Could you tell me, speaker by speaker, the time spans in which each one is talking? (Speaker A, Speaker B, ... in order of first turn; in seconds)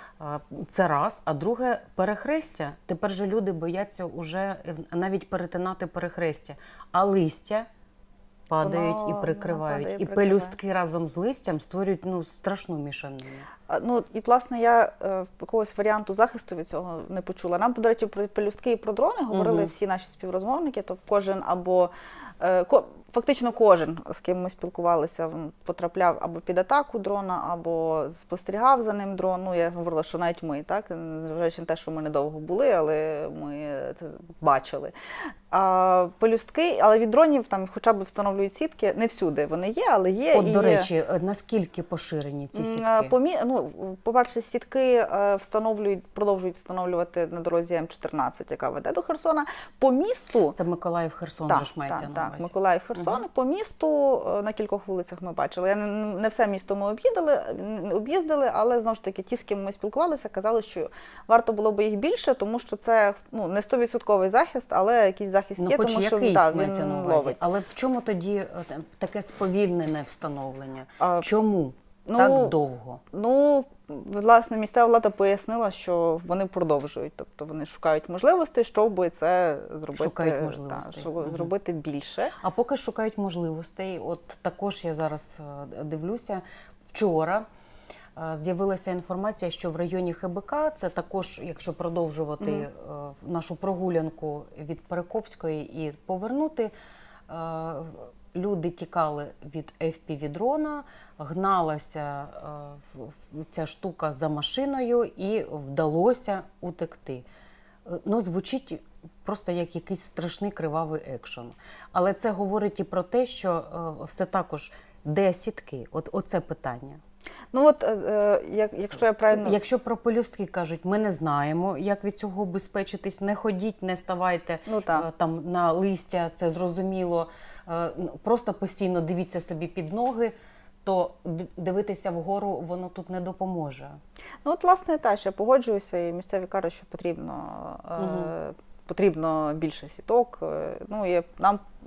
Speaker A: 0.2-7.7, 8.5-13.5, 19.3-19.7, 40.3-43.1, 50.5-53.2, 65.6-73.0, 79.9-81.5, 82.4-87.5, 88.2-96.7, 97.3-107.2, 107.8-117.0, 119.3-134.0, 138.0-138.3
Speaker B: 8.6-10.6, 13.7-34.9, 35.5-40.9, 42.5-50.5, 51.5-67.4, 71.0-71.3, 72.1-72.5, 73.1-82.3, 92.4-92.7, 117.5-119.6, 124.7-125.1, 134.4-141.7